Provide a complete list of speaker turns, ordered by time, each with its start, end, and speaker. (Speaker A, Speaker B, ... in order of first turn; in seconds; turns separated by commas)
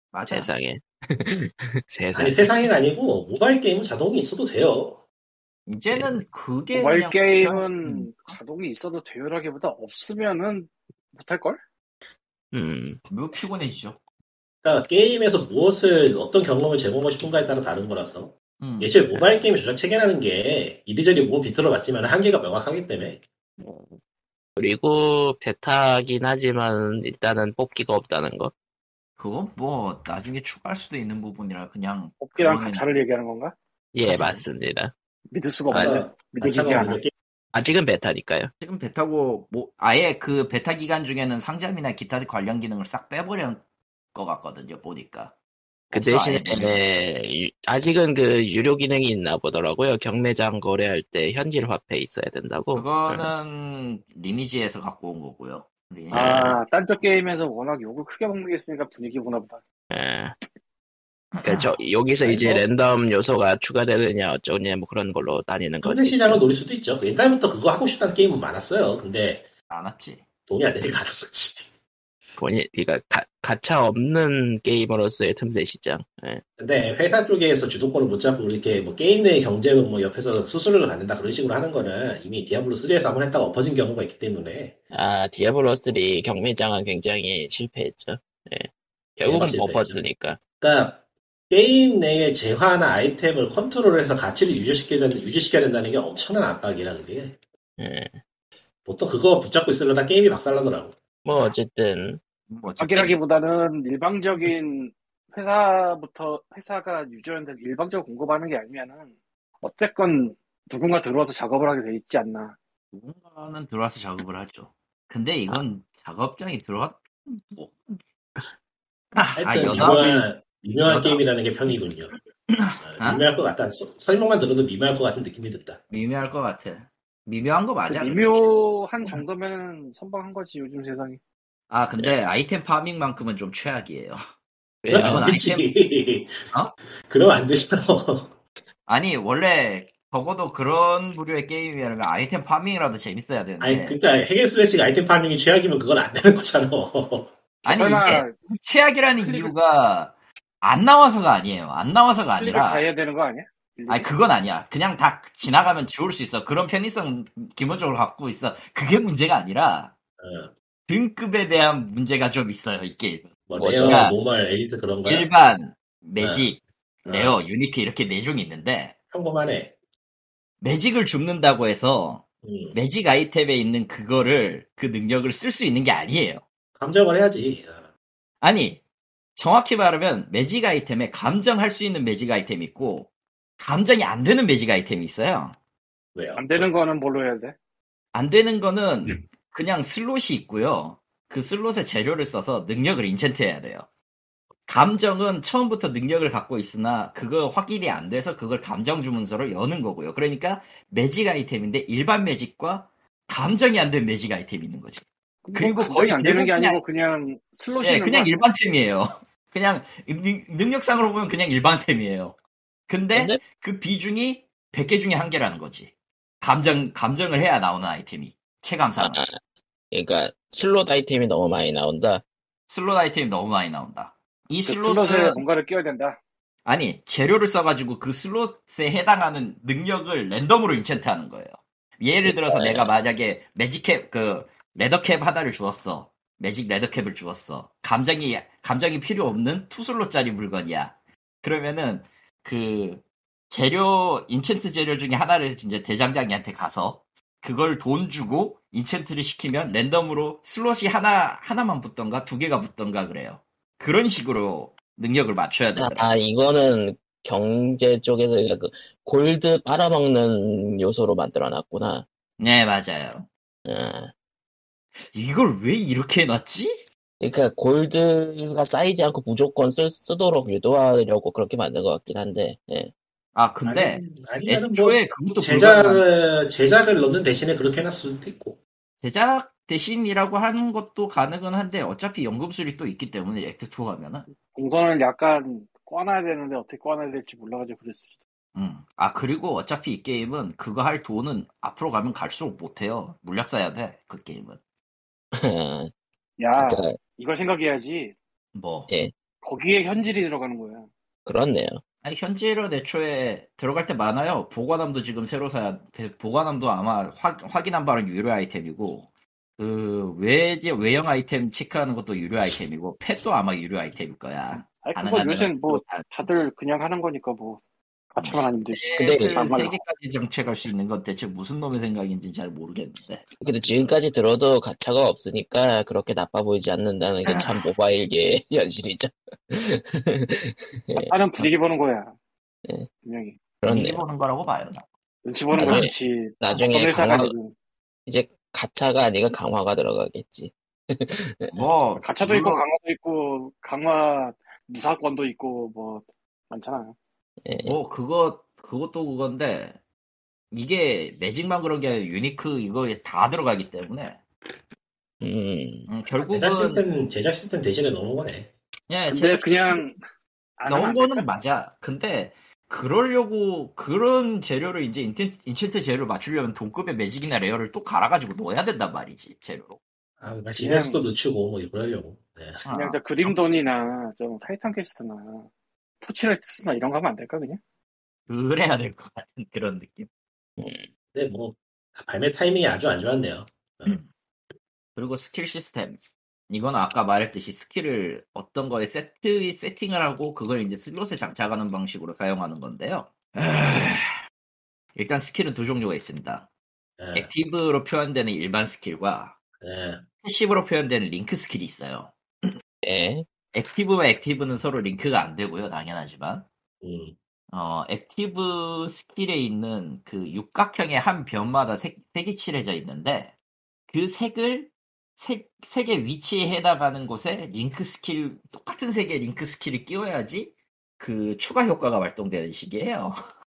Speaker A: 0.1-0.5, Speaker B: 0.3-2.7, Speaker C: 2.1-5.0, Speaker A: 5.7-8.4, Speaker B: 5.9-6.2, Speaker D: 6.7-11.6, Speaker B: 12.5-13.0, Speaker A: 13.1-14.0, Speaker C: 14.6-23.2, Speaker A: 18.6-19.4, Speaker B: 23.6-24.0, Speaker B: 24.6-28.5, Speaker A: 29.2-32.8, Speaker D: 32.2-33.5, Speaker B: 33.9-34.9, Speaker A: 34.0-34.4, Speaker D: 35.3-37.0, Speaker B: 35.7-36.0, Speaker C: 35.7-37.1, Speaker B: 37.5-38.5, Speaker A: 38.6-43.6, Speaker A: 44.1-45.3, Speaker A: 45.9-47.0, Speaker B: 45.9-53.3, Speaker A: 52.7-56.6, Speaker D: 56.1-59.6, Speaker B: 59.9-60.3, Speaker A: 61.4-61.8, Speaker B: 61.4-66.4, Speaker C: 62.2-62.6, Speaker C: 65.8-69.5, Speaker A: 69.7-70.2, Speaker C: 70.5-71.7, Speaker B: 72.4-76.4, Speaker C: 76.6-84.8, Speaker B: 84.9-90.4, Speaker C: 89.2-90.0, Speaker C: 90.6-97.4, Speaker B: 97.8-98.2, Speaker C: 98.8-100.9, Speaker B: 101.2-102.2, Speaker A: 102.5-103.2, Speaker D: 102.8-109.1, Speaker D: 109.6-112.5, Speaker A: 112.9-118.0, Speaker A: 119.1-120.2, Speaker C: 119.4-122.1, Speaker A: 120.8-121.7, Speaker A: 122.5-123.2, Speaker C: 122.8-125.8, Speaker A: 125.9-128.4, Speaker D: 127.9-131.2, Speaker A: 131.7-134.2, Speaker B: 134.8-135.3, Speaker C: 134.9-136.4, Speaker A: 135.0-135.7, Speaker C: 137.1-138.3, Speaker A: 138.9-144.0, Speaker C: 143.6-147.3, Speaker D: 147.6-148.3, Speaker A: 147.6-152.9, Speaker D: 149.2-149.5, Speaker D: 152.4-154.1, Speaker A: 153.9-159.9, Speaker C: 160.2-160.5, Speaker A: 160.9-163.3, Speaker C: 163.5-165.3, Speaker B: 163.6-164.0, Speaker A: 163.8-164.2, Speaker A: 165.1-168.9, Speaker C: 166.2-166.5, Speaker C: 167.1-167.4, Speaker C: 169.1-169.7, Speaker A: 170.6-176.4, Speaker C: 172.4-172.8, Speaker C: 176.8-177.9, Speaker A: 178.4-178.8, Speaker A: 179.4-185.6, Speaker C: 186.1-186.7, Speaker D: 186.3-187.5, Speaker A: 188.1-193.8, Speaker A: 194.7-206.8, Speaker D: 205.4-208.3, Speaker A: 207.8-212.3, Speaker A: 212.9-219.2, Speaker B: 213.1-213.4, Speaker B: 219.0-219.3, Speaker B: 219.9-222.2, Speaker A: 222.7-225.4, Speaker D: 224.7-226.2, Speaker A: 226.6-256.1, Speaker B: 232.2-232.9, Speaker B: 255.8-262.1, Speaker A: 262.4-263.3, Speaker B: 263.6-264.1, Speaker A: 265.0-266.8, Speaker B: 267.2-272.9, Speaker A: 273.3-276.0, Speaker C: 273.6-278.6, Speaker A: 279.0-284.3, Speaker D: 284.5-288.1, Speaker A: 288.5-294.6, Speaker B: 295.3-295.9, Speaker D: 296.4-298.1, Speaker B: 296.6-297.0, Speaker A: 298.5-298.9, Speaker D: 299.4-300.9, Speaker B: 301.2-301.8, Speaker A: 302.0-316.3, Speaker D: 314.8-317.6, Speaker D: 318.1-319.8, Speaker A: 318.2-323.9, Speaker B: 318.9-319.5, Speaker B: 323.4-331.5, Speaker D: 330.9-332.1, Speaker D: 333.0-333.4, Speaker B: 333.6-334.0, Speaker A: 333.6-334.8, Speaker D: 335.2-337.5, Speaker B: 335.5-337.3, Speaker A: 335.6-335.9, Speaker B: 338.1-341.6, Speaker A: 341.5-342.6, Speaker D: 342.0-346.9, Speaker B: 347.4-347.8, Speaker A: 347.6-349.8, Speaker A: 350.5-354.2, Speaker B: 355.2-355.9, Speaker A: 355.9-356.8, Speaker C: 356.2-358.5, Speaker A: 358.9-359.8, Speaker D: 359.1-360.0, Speaker D: 360.6-361.3, Speaker A: 360.7-369.8, Speaker C: 370.2-372.6, Speaker D: 370.6-371.0, Speaker A: 372.6-373.3, Speaker D: 372.7-375.5, Speaker D: 376.0-377.6, Speaker A: 378.3-380.1, Speaker B: 380.6-380.9, Speaker C: 381.1-384.0, Speaker A: 384.9-386.0, Speaker A: 386.5-394.0, Speaker A: 394.9-396.5, Speaker C: 397.0-397.3, Speaker A: 397.1-399.3, Speaker C: 399.6-400.0, Speaker A: 400.2-402.5, Speaker B: 402.8-403.3, Speaker A: 403.5-406.4, Speaker C: 406.8-407.1, Speaker A: 407.5-413.3, Speaker A: 413.9-423.2